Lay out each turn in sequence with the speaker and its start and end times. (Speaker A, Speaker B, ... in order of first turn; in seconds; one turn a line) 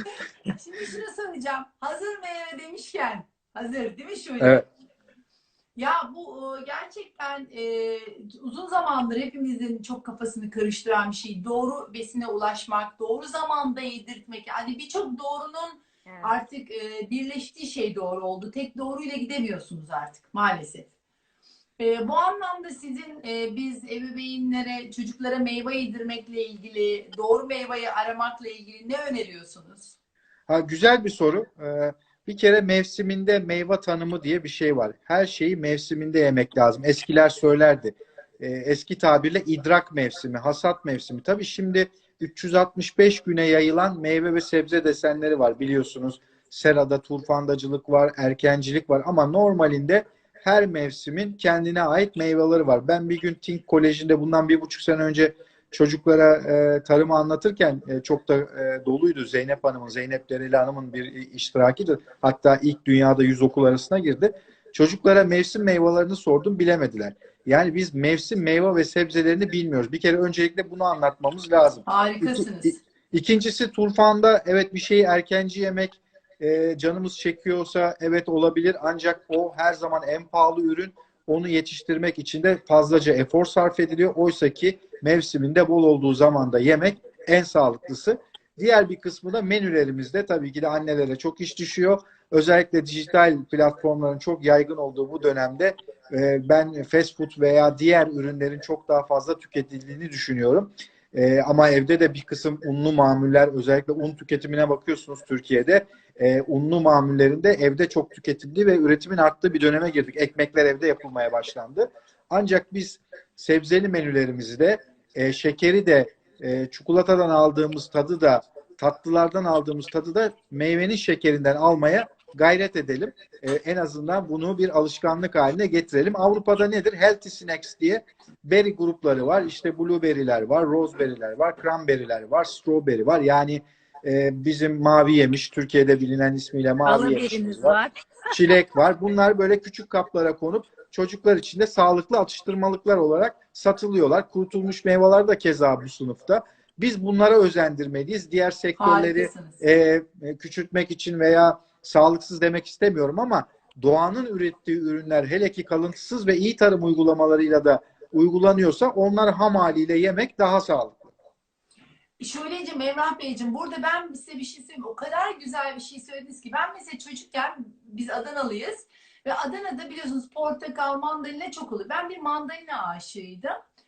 Speaker A: 0.5-4.6
Speaker A: 5.8-20.9
Speaker B: 16.1-16.4
Speaker A: 21.8-29.9
Speaker C: 30.5-137.8
Speaker A: 71.9-72.8
Speaker B: 136.8-138.5
Speaker C: 138.3-161.1
Speaker A: 148.8-149.6
Speaker A: 162.2-173.6